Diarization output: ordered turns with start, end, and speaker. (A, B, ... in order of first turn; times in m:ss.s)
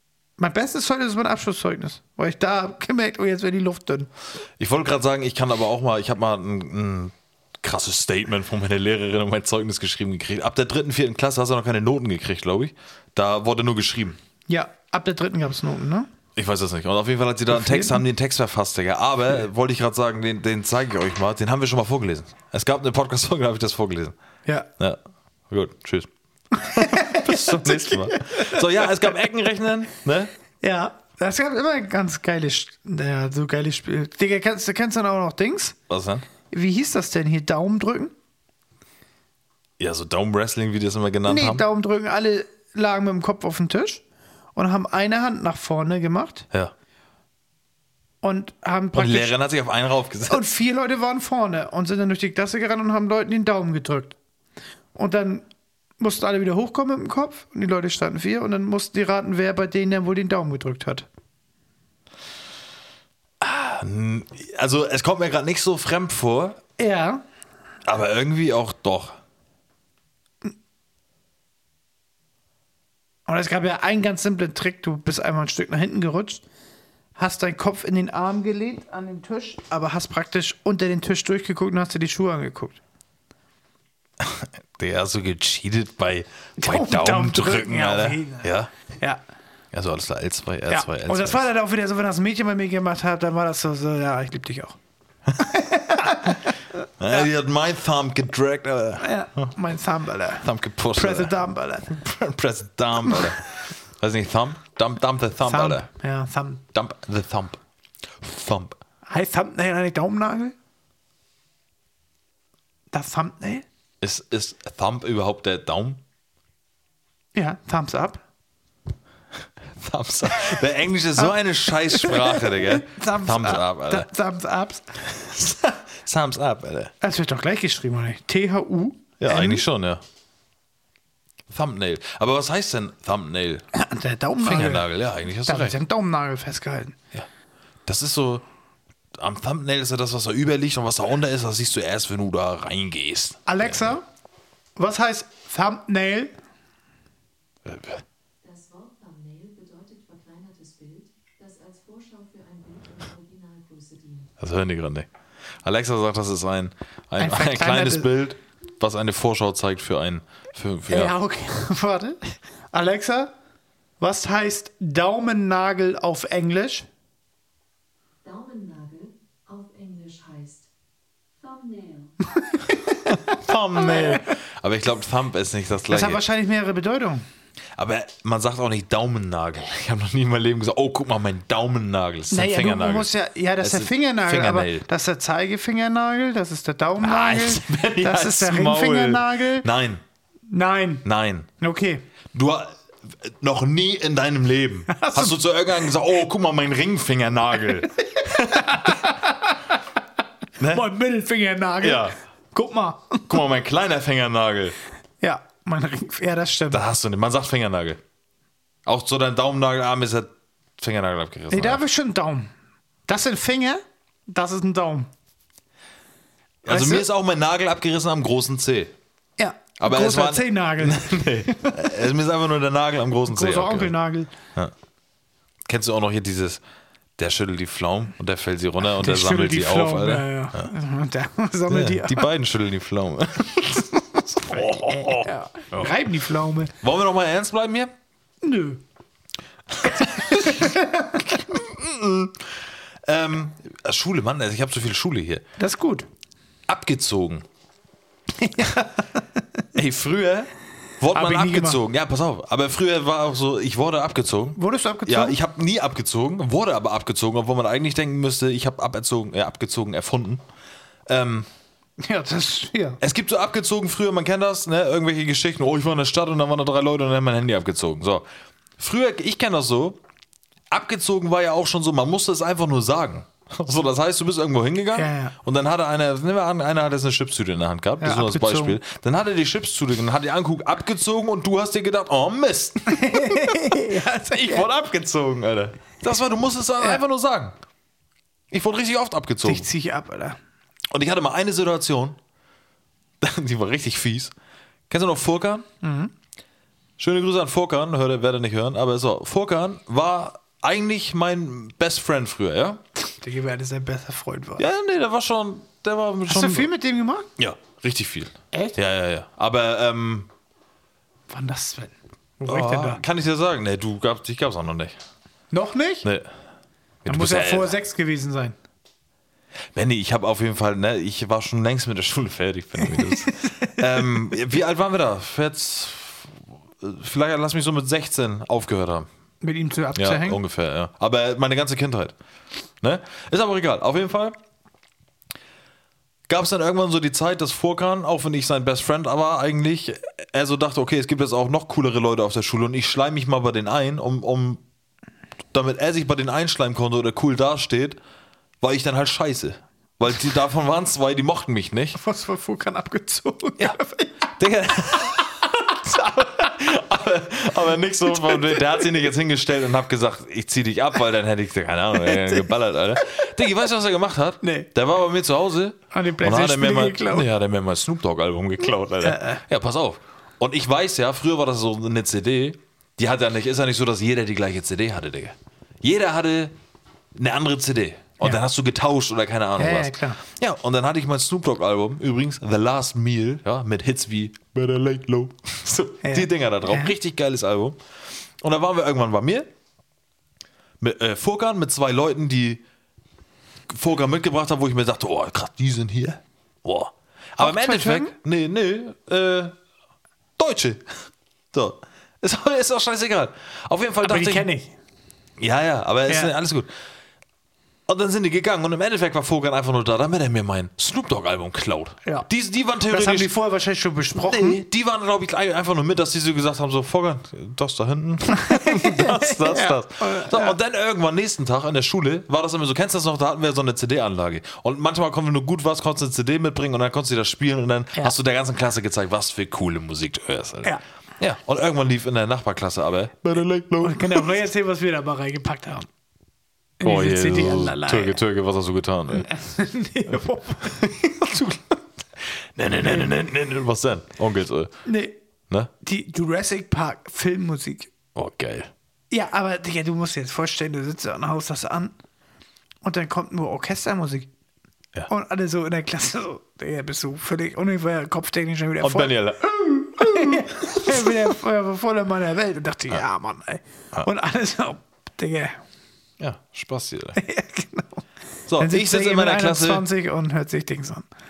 0:00.4-0:04.1 A
0:04.6-0:14.2 B
0:14.5-0:16.1 A
0:16.4-0:24.1 B
0:17.5-0:18.0 A
0:24.8-0:30.3 B
0:26.6-0:28.6 A
0:30.6-0:35.8 A
0:35.9-0:36.2 B
0:36.5-0:38.1 A
0:39.8-0:41.6 B
0:41.2-0:44.0 A
0:44.6-0:46.5 A
0:48.2-0:49.3 A
0:48.9-0:50.4 B
0:50.3-0:54.1 A
0:54.9-0:55.4 A
0:56.0-1:01.1 A
1:03.4-1:06.6 B
1:06.8-1:07.2 A
1:07.8-1:09.2 B
1:13.3-1:16.4 A
1:17.2-1:22.8 A
1:24.2-1:28.7 B
1:26.6-1:29.2 A
1:29.7-1:31.5 B
1:30.7-1:34.8 A
1:35.4-1:36.6 A
1:37.0-1:39.5 B
1:39.0-1:41.9 A
1:40.4-1:41.3 B
1:41.9-1:45.8 B
1:45.4-1:46.6 A
1:46.7-1:47.6 B
1:48.2-1:48.8 B
1:49.1-1:50.5 A
1:52.9-1:53.6 A
1:54.0-1:56.0 B
1:57.3-1:58.2 A
1:59.7-2:04.1 B
2:01.2-2:04.9 A
2:05.0-2:06.9 B
2:07.0-2:09.6 A
2:09.2-2:10.0 B
2:11.5-2:13.6 B
2:13.7-2:14.9 A
2:14.4-2:15.7 B
2:15.4-2:17.0 A
2:17.8-2:18.4 B
2:19.2-2:24.0 B
2:23.4-2:24.0 A
2:24.8-2:26.3 A
2:27.6-2:28.0 B
2:28.4-2:34.3 C
2:34.4-2:35.1 B
2:35.6-2:41.1 B
2:37.2-2:38.1 A
2:40.9-2:43.3 A
2:44.0-2:46.9 A
2:48.2-2:50.7 C
2:51.3-2:52.2 C
2:53.1-2:56.2 B
2:53.8-2:54.2 A
2:55.9-2:57.2 A
2:57.8-3:04.8 B
3:02.3-3:09.7 A
3:07.0-3:10.0 B
3:10.5-3:11.0 A
3:11.0-3:11.5 B
3:11.6-3:12.0 A
3:12.3-3:19.0 B
3:14.9-3:15.4 A
3:18.2-3:19.7 A
3:20.6-3:20.9 B
3:20.7-3:23.4 A
3:21.8-3:22.2 B
3:23.3-3:24.8 B
3:25.2-3:26.9 A
3:26.7-3:28.0 B
3:28.8-3:31.8 B
3:31.5-3:32.5 A
3:33.1-3:35.1 A
3:36.6-3:38.9 B
3:36.7-3:37.1 A
3:39.4-3:41.8 A
3:39.8-3:43.9 B
3:43.3-3:44.3 A
3:45.6-3:46.6 B
3:47.2-3:50.7 B
3:48.9-3:52.3 A
3:51.7-3:55.9 B
3:54.5-3:56.7 A
3:56.8-3:57.9 B
3:58.4-3:58.8 A
3:59.7-4:00.7 B
4:00.3-4:01.3 A
4:01.2-4:05.4 B
4:05.6-4:06.1 A
4:06.7-4:07.4 B
4:08.4-4:09.4 A
4:09.7-4:20.4 B
4:11.1-4:11.8 A
4:14.6-4:15.4 A
4:21.1-4:21.5 B
4:22.0-4:23.0 A
4:23.0-4:28.2 B
4:28.8-4:30.0 B
4:30.7-4:47.6 B
4:34.9-4:35.3 A
4:38.0-4:38.8 A
4:42.9-4:44.7 A
4:48.5-4:49.7 B
4:49.4-4:50.4 A
4:50.9-4:52.2 B
4:53.2-4:54.3 B
4:54.9-4:55.6 B
4:55.8-4:56.1 A
4:57.0-5:02.8 B
5:03.1-5:04.6 A
5:04.6-5:06.7 B
5:06.3-5:07.3 A
5:07.4-5:10.3 B
5:08.5-5:08.8 A
5:11.3-5:13.0 A
5:12.4-5:15.0 B
5:15.5-5:16.1 A
5:16.0-5:16.3 B
5:17.0-5:17.8 B
5:17.1-5:18.6 A
5:19.7-5:29.1 B
5:22.8-5:23.8 A
5:29.4-5:30.4 A
5:29.9-5:32.1 B
5:32.8-5:34.4 B
5:36.3-5:44.6 B
5:45.5-5:48.0 B
5:48.6-5:52.0 B
5:52.0-5:54.2 A
5:54.3-6:16.5 B
5:58.1-5:58.8 A
6:02.1-6:02.5 A
6:04.4-6:04.7 A
6:05.9-6:07.3 A
6:09.0-6:09.4 A
6:17.1-6:27.8 B
6:19.6-6:20.2 A
6:26.0-6:26.9 A
6:28.4-6:29.5 B
6:30.8-6:32.6 B
6:33.7-6:39.5 B
6:37.4-6:38.1 A
6:40.4-6:44.5 B
6:44.0-6:44.7 A
6:45.4-6:46.7 B
6:46.1-6:46.3 A
6:47.9-6:53.3 B
6:52.9-6:54.6 A
6:54.2-7:14.3 B
6:58.4-7:00.6 A
7:13.8-7:15.9 A
7:16.8-7:18.2 A
7:16.8-7:19.3 B
7:19.1-7:20.8 A
7:20.6-7:24.7 B
7:24.8-7:25.1 A
7:25.8-7:27.9 A
7:28.1-7:28.7 B
7:29.1-7:31.9 A
7:32.8-7:34.3 A
7:35.1-7:39.1 A
7:38.8-7:41.1 B
7:40.0-7:45.6 A
7:46.2-7:47.2 B
7:47.2-7:48.0 A
7:48.5-7:49.8 B
7:48.6-7:51.1 A